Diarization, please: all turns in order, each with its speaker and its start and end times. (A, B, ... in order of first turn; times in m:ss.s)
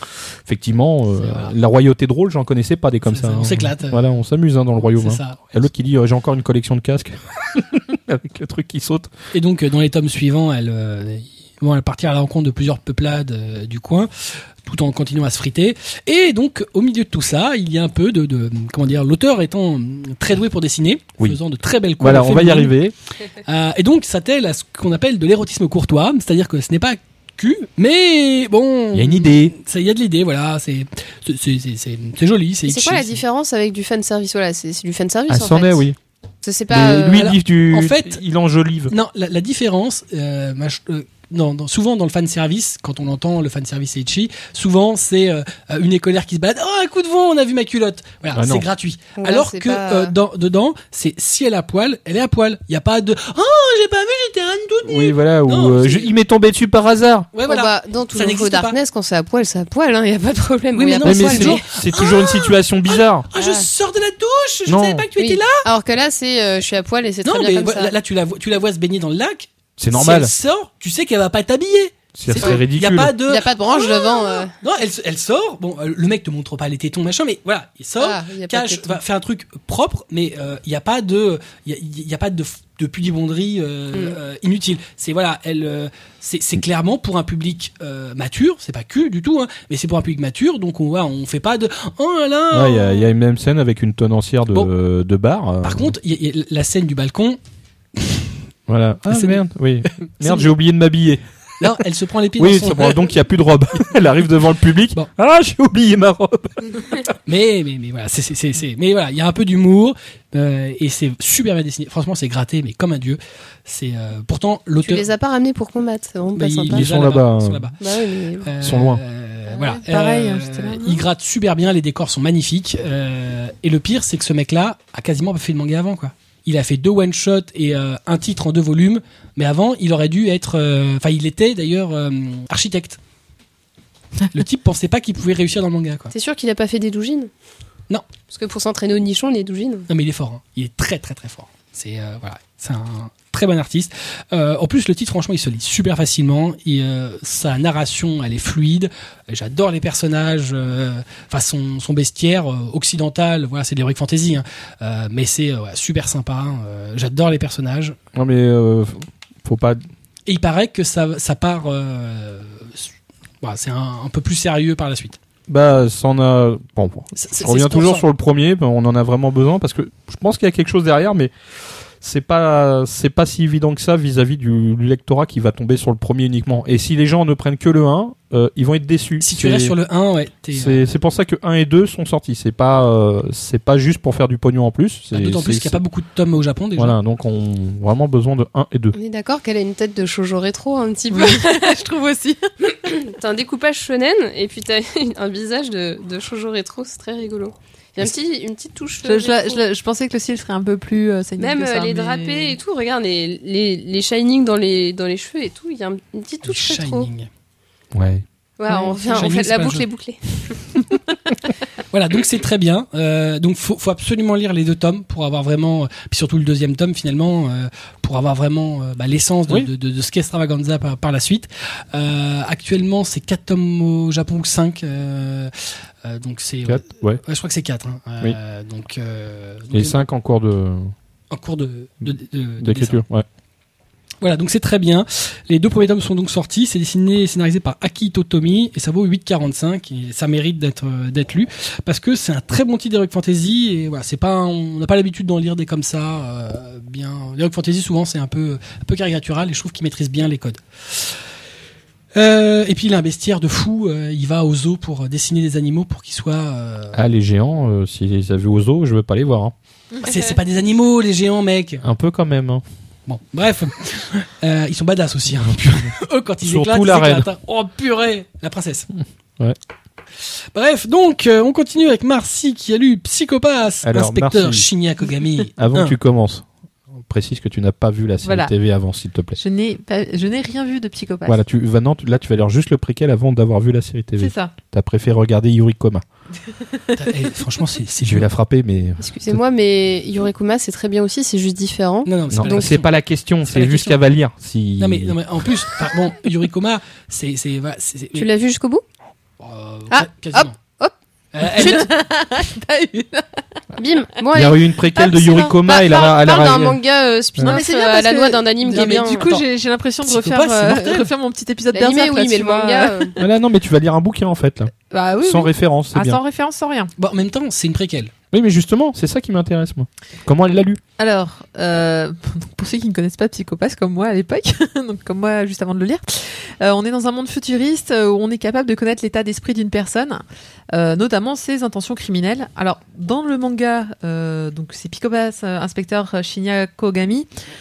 0:00.4-0:09.1 A
0:01.2-0:01.5 B
0:03.1-0:04.1 B
0:04.9-0:05.5 B
0:09.3-0:14.1 B
0:14.6-0:22.8 B
0:22.0-0:23.0 A
0:23.4-0:33.2 B
0:28.9-0:29.6 A
0:32.7-0:35.8 C
0:35.3-0:36.0 A
0:36.4-0:37.3 C
0:36.7-0:38.9 A
0:37.1-0:38.2 B
0:38.9-0:56.1 B
0:48.3-0:48.7 A
0:49.2-0:50.2 C
0:54.8-0:57.3 A
0:57.3-0:58.8 B
0:57.5-1:01.6 C
1:00.7-1:05.7 B
1:01.0-1:03.3 A
1:03.4-1:03.7 C
1:04.7-1:05.1 A
1:05.2-1:07.9 C
1:07.2-1:33.1 B
1:09.8-1:10.3 A
1:12.2-1:13.2 A
1:13.2-1:14.5 C
1:18.0-1:19.0 C
1:23.9-1:24.2 C
1:32.5-1:36.0 A
1:35.6-1:37.4 B
1:38.0-1:38.3 B
1:38.7-1:41.7 A
1:39.1-1:40.5 B
1:41.6-1:43.1 B
1:42.4-1:47.1 A
1:47.3-1:55.1 B
1:54.8-1:56.9 C
1:56.4-2:13.0 B
1:56.7-1:57.7 A
1:57.8-1:58.5 C
1:58.6-1:59.0 A
1:59.5-2:01.0 D
2:14.3-2:16.1 B
2:16.1-2:17.3 C
2:18.3-2:19.9 C
2:19.9-2:38.0 B
2:38.1-2:39.8 A
2:40.3-2:42.9 B
2:43.4-2:45.2 B
2:45.5-2:51.3 A
2:47.2-2:48.1 B
2:52.0-2:59.8 A
2:59.2-3:00.8 B
3:00.5-3:05.8 A
3:05.1-3:07.0 B
3:06.8-3:09.0 A
3:08.9-3:11.6 C
3:11.1-3:12.5 D
3:12.8-3:19.6 C
3:19.0-3:22.6 D
3:21.4-3:27.1 C
3:26.4-3:27.3 B
3:27.9-3:28.2 A
3:28.6-3:30.6 C
3:28.7-3:29.3 D
3:29.1-3:29.9 B
3:31.9-3:45.5 B
3:46.0-3:50.0 B
3:46.7-3:47.2 A
3:49.7-3:50.9 A
3:51.3-3:53.0 B
3:52.6-3:53.2 A
3:54.2-4:11.2 B
4:12.2-4:17.0 B
4:16.9-4:19.5 A
4:20.0-4:21.8 B
4:21.8-4:22.6 A
4:23.1-4:28.9 B
4:26.4-4:27.3 A
4:30.5-4:36.0 B
4:33.8-4:34.7 A
4:35.6-4:36.5 A
4:37.0-4:39.4 A
4:38.2-4:38.5 D
4:39.4-4:41.4 D
4:41.3-4:46.0 A
4:44.2-4:44.5 D
4:46.7-4:47.0 D
4:47.0-4:48.3 B
4:48.0-4:49.4 A
4:49.0-4:52.7 C
4:52.1-4:52.9 B
4:52.3-4:55.6 A
4:53.4-4:54.0 B
4:54.8-4:58.3 B
4:58.2-4:58.8 C
4:59.4-5:00.6 B
4:59.9-5:00.9 C
5:01.3-5:01.9 B
5:01.5-5:03.5 D
5:01.6-5:01.8 C
5:03.8-5:09.3 C
5:04.3-5:06.8 A
5:05.0-5:05.5 D
5:07.4-5:13.1 D
5:08.6-5:09.4 B
5:10.1-5:11.1 B
5:11.7-5:13.1 C
5:13.2-5:16.2 A
5:14.9-5:16.9 D
5:17.0-5:18.1 B
5:18.3-5:20.8 A
5:21.0-5:37.3 D